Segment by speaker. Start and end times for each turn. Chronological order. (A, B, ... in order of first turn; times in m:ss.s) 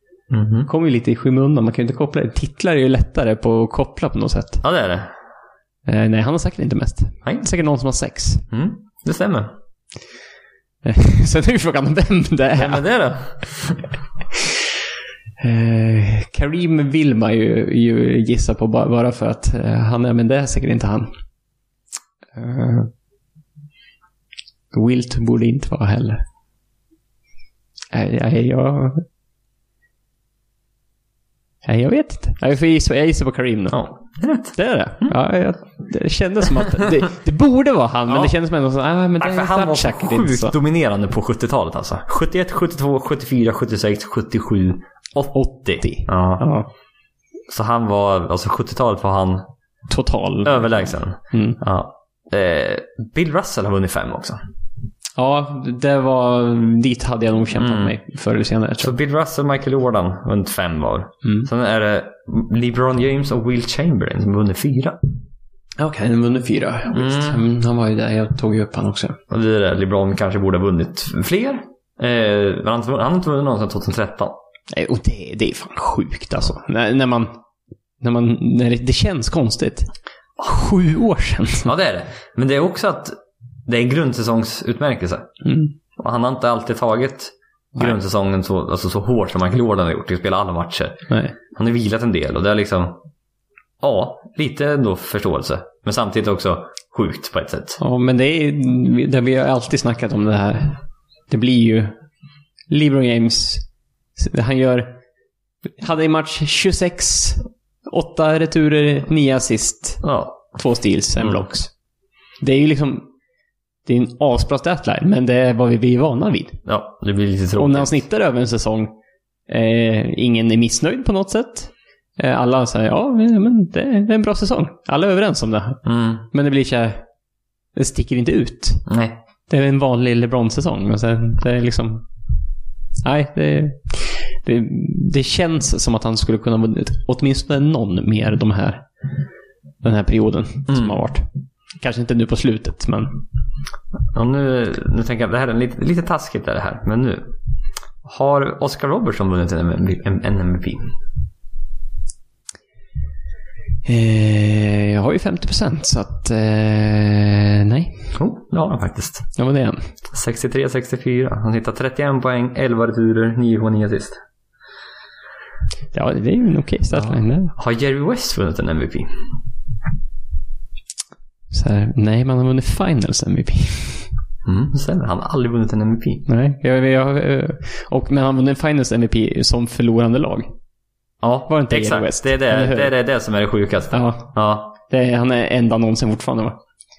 0:00.3-0:00.7 A
0:00.7-0:04.6 B
0:04.6-0:05.1 A
0:05.9-0:08.4 B
0:08.5-0:09.6 A
0:10.8-0:12.8 B
0:12.6-0:13.9 A
0:15.4-0:21.1 B
0:22.3-0:22.9 B
0:24.7-0:26.2 B
0:27.9-0:29.0 B
0:31.6-0:33.8 B
0:33.7-0:35.1 A
0:34.6-0:40.6 B
0:38.1-0:38.4 A
0:39.2-0:46.5 A
0:45.4-0:46.7 B
0:47.5-0:49.5 A
0:49.9-0:51.6 B
0:50.4-0:54.4 A
0:55.2-0:58.9 B
0:57.6-0:57.9 A
0:58.8-1:05.0 A
1:05.8-1:09.2 B
1:06.9-1:07.4 A
1:09.3-1:14.4 A
1:14.7-1:17.4 B
1:18.0-1:21.7 B
1:21.6-1:23.2 A
1:23.7-1:25.3 A
1:25.4-1:25.7 B
1:26.0-1:31.0 A
1:31.1-1:31.3 B
1:31.6-1:33.0 A
1:33.8-1:37.8 A
1:37.8-1:41.9 B
1:42.7-1:43.6 B
1:44.2-1:44.9 B
1:45.8-1:50.0 B
1:50.0-1:50.6 A
1:50.6-1:51.7 B
1:51.2-1:51.5 A
1:52.4-1:53.1 B
1:53.9-1:56.6 B
1:56.7-1:58.0 A
1:57.6-1:58.9 B
1:59.5-2:07.0 B
2:05.9-2:06.3 A
2:07.8-2:08.8 B
2:08.9-2:09.2 A
2:09.5-2:12.1 B
2:13.0-2:18.9 B
2:19.8-2:21.3 B
2:20.7-2:21.0 A
2:21.8-2:23.2 B
2:24.1-2:27.3 A
2:28.0-2:30.9 A
2:33.8-2:38.1 B
2:38.1-2:39.3 A
2:39.4-2:39.9 B
2:40.1-2:44.2 A
2:45.9-2:47.5 B
2:46.9-2:49.1 A
2:51.5-2:54.1 B
2:54.4-2:56.3 A
2:56.3-3:00.5 B
3:01.2-3:04.7 A
3:01.5-3:02.9 B
3:03.9-3:06.6 B